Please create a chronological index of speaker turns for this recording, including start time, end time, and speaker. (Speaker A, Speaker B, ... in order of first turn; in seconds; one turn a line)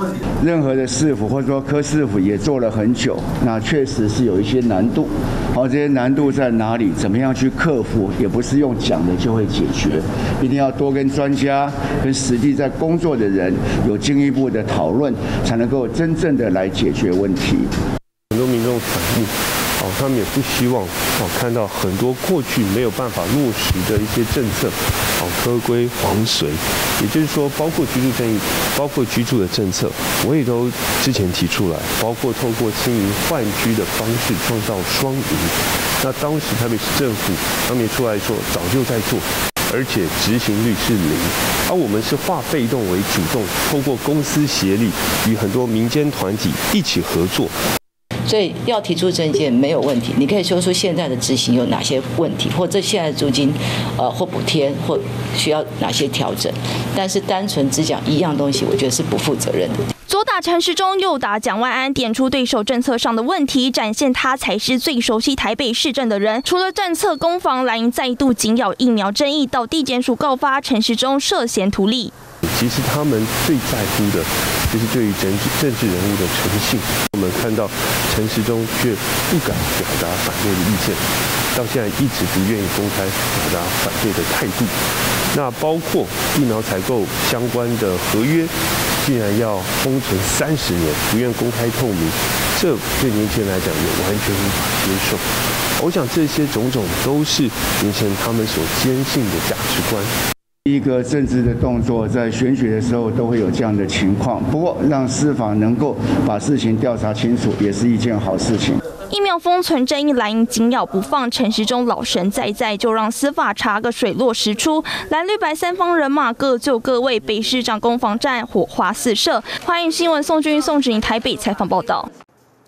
Speaker A: 0.4-17.7
Speaker B: 18.3-47.5
Speaker C: 48.2-59.8
Speaker D: 60.1-72.1
Speaker B: 72.4-81.0
Speaker B: 81.5-84.8
Speaker B: 85.3-95.2
Speaker B: 95.8-100.1
Speaker A: 100.7-108.8
Speaker D: 109.1-122.1